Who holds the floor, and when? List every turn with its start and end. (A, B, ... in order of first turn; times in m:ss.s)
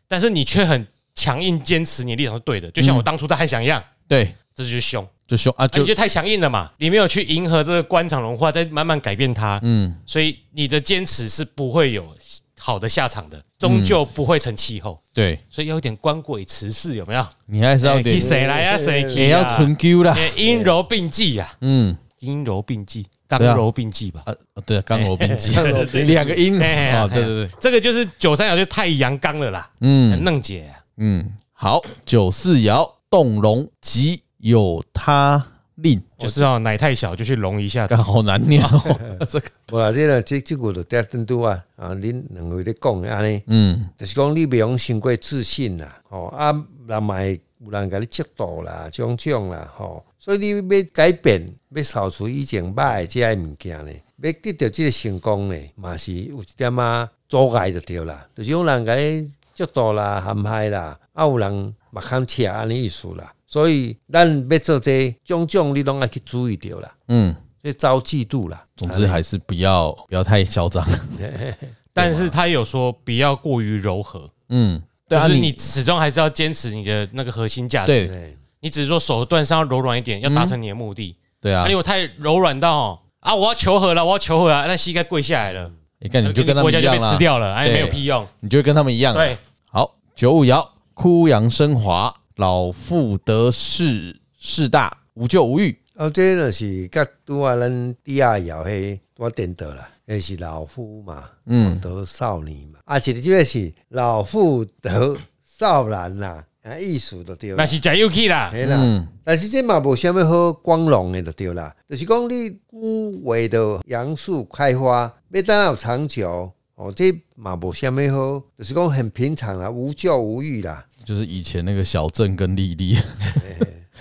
0:00.1-0:03.9 A
0:02.8-0:03.0 B
0:04.1-0:04.4 B
0:04.5-0:05.1 A
0:05.3-0:05.9 B
0:05.7-0:21.5 A
0:09.6-0:10.0 B
0:13.6-0:14.0 B
0:15.1-0:15.4 B
0:17.5-0:18.4 B
0:18.1-0:19.6 C
0:19.1-0:20.4 B
0:20.4-0:20.7 C
0:21.6-0:22.0 B
0:22.2-0:24.2 A
0:23.4-0:23.6 B
0:24.2-0:27.5 B
0:24.9-0:30.8 A
0:25.4-0:26.4 C
0:29.8-0:30.3 B
0:31.0-0:36.1 B
0:36.2-0:38.0 A
0:36.2-0:36.5 C
0:37.9-0:39.5 B
0:38.6-0:43.4 C
0:43.5-0:43.9 B
0:44.0-1:06.9 C
1:07.1-1:07.4 B
1:07.6-1:09.2 C
1:08.8-1:11.2 B
1:11.2-1:11.7 C
1:11.9-1:12.3 B
1:11.9-1:14.3 A
1:14.5-1:15.7 B
1:15.1-1:18.1 A
1:17.8-1:18.1 B
1:18.0-1:18.4 C
1:18.6-1:25.7 A
1:20.2-1:20.6 B
1:21.4-1:21.8 B
1:26.0-1:35.8 B
1:26.2-1:28.3 A
1:29.1-1:29.4 A
1:36.0-1:47.8 C
1:41.5-1:41.8 B
1:47.6-1:48.6 A
1:48.5-2:00.8 C
1:48.6-1:49.1 B
2:01.0-2:03.6 B
2:03.4-2:03.8 C